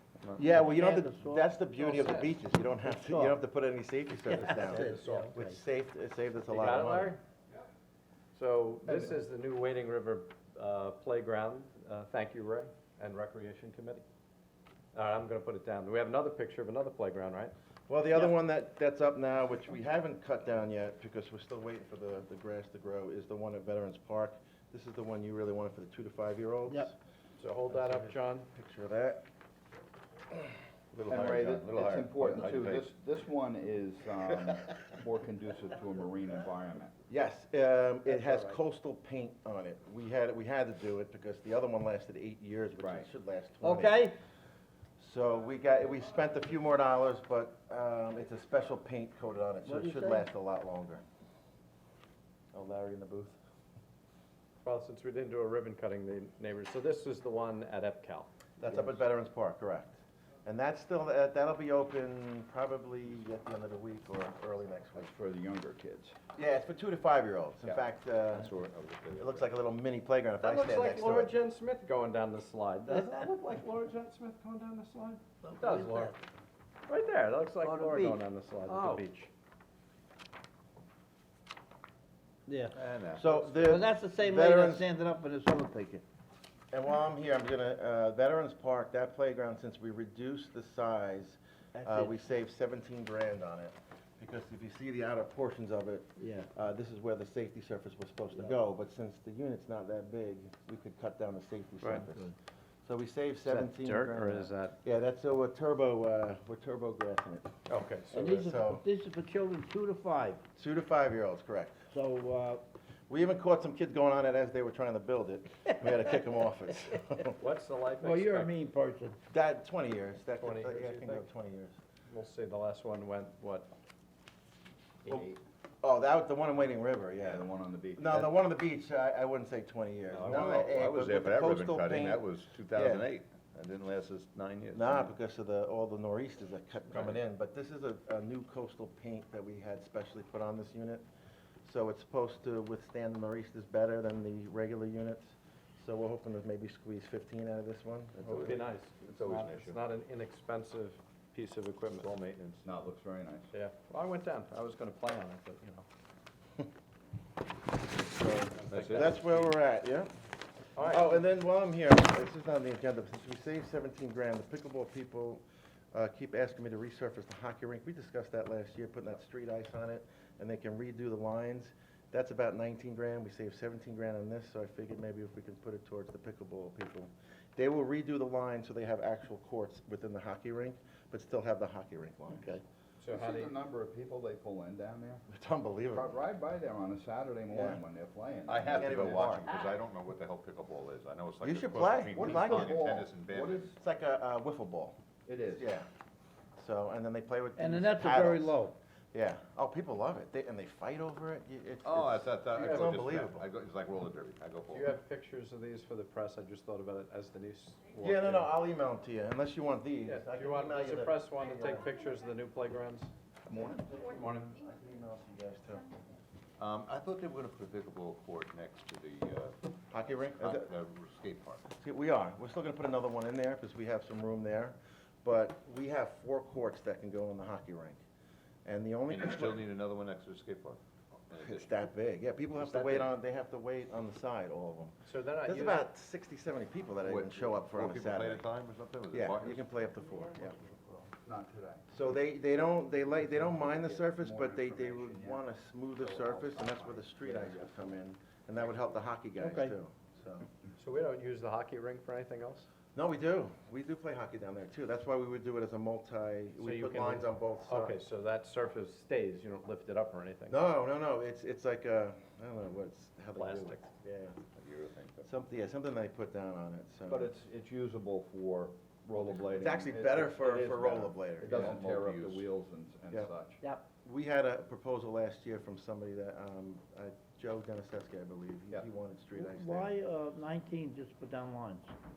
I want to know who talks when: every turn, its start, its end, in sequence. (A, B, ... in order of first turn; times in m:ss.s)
0:00.4-0:07.2 A
0:00.5-0:01.5 B
0:01.8-0:02.3 C
0:02.8-0:03.4 B
0:04.3-0:05.6 B
0:04.4-0:05.3 C
0:06.5-0:07.2 C
0:08.3-0:14.0 C
0:08.9-0:09.2 D
0:14.9-0:17.5 C
0:17.9-0:27.0 A
0:27.4-0:28.5 C
0:28.5-0:29.2 A
0:30.9-0:32.9 E
0:31.1-0:37.0 D
0:37.1-0:44.1 A
0:42.8-0:43.1 D
0:43.6-0:44.2 B
0:45.0-0:51.0 A
0:49.6-0:50.3 B
0:52.5-0:53.4 A
0:54.6-0:58.3 C
0:58.6-1:05.1 A
0:58.6-0:59.0 D
1:05.0-1:06.2 D
1:06.4-1:08.5 A
1:08.3-1:09.5 E
1:09.2-1:11.3 A
1:10.4-1:16.1 C
1:15.4-1:16.1 B
1:16.9-1:19.3 C
1:17.6-1:18.2 B
1:18.7-1:19.0 B
1:22.5-1:22.8 B
1:22.7-1:23.8 E
1:23.1-1:24.9 A
1:23.6-1:26.0 B
1:26.7-1:42.3 A
1:31.8-1:32.2 B
1:36.2-1:36.5 B
1:42.9-1:47.5 A
1:43.4-1:44.8 C
1:47.7-1:48.5 C
1:48.1-1:50.4 B
1:48.2-1:48.8 A
1:50.6-1:51.8 A
1:51.9-1:52.6 B
1:53.1-1:57.4 A
1:57.4-1:58.5 C
1:58.0-1:59.2 B
1:59.3-2:01.8 A
2:00.4-2:01.3 C
2:02.1-2:03.7 C
2:05.0-2:05.4 D
2:05.8-2:13.1 A
2:07.2-2:08.3 D
2:10.1-2:15.2 E
2:14.7-2:21.1 A
2:16.9-2:17.2 E
2:21.6-2:28.4 A
2:28.2-2:28.6 E
2:28.3-2:32.2 C
2:29.0-2:29.5 D
2:29.3-2:29.8 E
2:32.0-2:32.6 E
2:32.6-2:33.5 D
2:33.5-2:35.9 C
2:38.0-2:40.1 A
2:38.6-2:39.2 C
2:38.7-2:39.4 E
2:40.8-2:41.1 C
2:40.8-3:02.6 A
3:03.0-3:03.5 C
3:03.1-3:05.2 D
3:05.3-3:06.1 A
3:05.9-3:09.4 D
3:07.5-3:07.8 A
3:08.5-3:13.7 E
3:08.8-3:09.5 A
3:11.4-3:12.9 A
3:12.2-3:13.8 D
3:13.8-3:15.0 A
3:15.3-3:15.7 D
3:15.6-3:15.9 A
3:16.6-3:18.6 A
3:17.6-3:18.8 B
3:19.1-3:23.4 A
3:21.8-3:24.9 E
3:22.6-3:22.9 C
3:24.7-3:28.6 C
3:28.0-3:31.9 A
3:30.1-3:33.1 C
3:33.5-3:35.9 A
3:34.0-3:34.5 C
3:36.6-3:39.6 E
3:39.9-3:40.7 A
3:40.4-3:41.6 E
3:41.8-3:48.0 A
3:48.6-3:49.7 A
3:49.1-3:51.8 E
3:51.4-3:58.5 A
3:52.6-3:53.1 E
3:55.0-3:55.9 C
3:57.0-3:59.7 E
3:59.1-4:00.6 A
4:00.3-4:00.8 B
4:01.2-4:01.9 D
4:01.9-4:10.5 A
4:03.2-4:05.4 D
4:06.0-4:08.0 D
4:09.4-4:09.8 B
4:10.8-4:12.7 C
4:13.0-4:18.0 A
4:16.6-4:20.6 C
4:20.5-4:24.4 A
4:23.4-4:23.9 C
4:24.6-4:25.3 E
4:25.2-4:27.3 A
4:27.1-4:33.6 D
4:29.5-4:31.7 A
4:31.5-4:32.5 E
4:34.0-4:40.0 A
4:39.3-4:41.9 B